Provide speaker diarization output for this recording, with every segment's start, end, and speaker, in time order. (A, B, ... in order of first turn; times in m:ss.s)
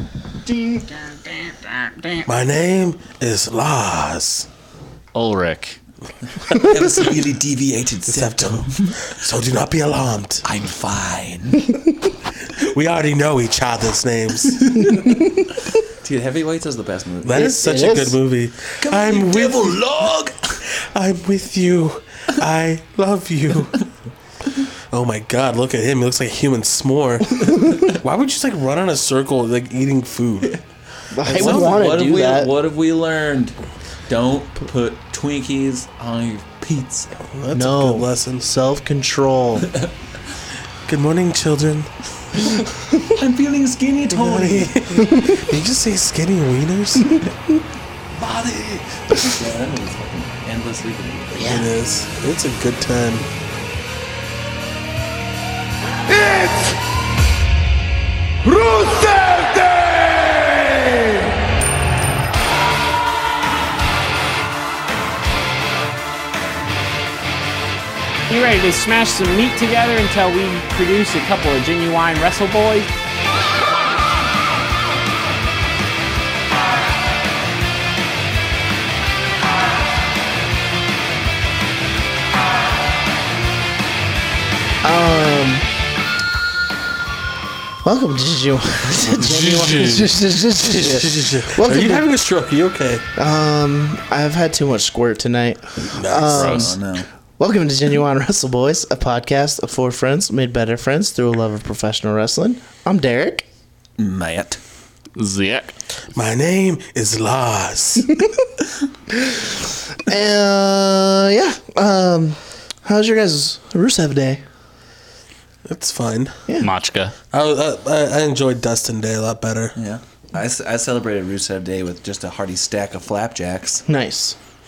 0:00.4-0:02.2 A
0:02.2-0:04.5 B
0:05.1-0:05.8 A
0:06.4-0:08.9 C
0:08.1-0:10.4 B
0:10.4-0:11.8 C
0:12.4-0:14.7 B
0:14.8-0:15.1 C
0:16.0-0:17.4 C
0:17.2-0:23.8 B
0:17.3-0:18.2 D
0:18.8-0:20.6 C
0:24.9-0:30.6 B
0:31.1-0:32.5 D
0:31.2-0:31.9 B
0:31.3-0:37.2 C
0:37.2-0:38.5 B
0:37.5-0:39.7 D
0:40.8-0:42.6 B
0:43.0-0:45.0 C
0:44.1-0:47.2 B
0:45.0-0:45.5 D
0:48.2-0:51.4 C
0:51.3-0:51.7 D
0:51.4-0:53.3 B
0:56.1-0:56.7 B
0:58.4-0:59.6 B
1:08.3-1:12.9 E
1:24.8-1:25.6 D
1:27.8-1:32.0 D
1:28.9-1:33.0 B
1:33.2-1:36.8 D
1:35.9-1:36.5 B
1:36.3-1:37.1 C
1:36.4-1:36.7 A
1:37.4-1:43.4 D
1:44.0-1:44.6 C
1:45.2-1:45.7 A
1:46.1-1:48.2 B
1:50.0-1:54.4 D
1:55.6-1:56.4 B
1:56.6-1:57.1 A
1:57.3-1:59.7 B
1:59.8-2:03.8 C
2:03.8-2:04.4 D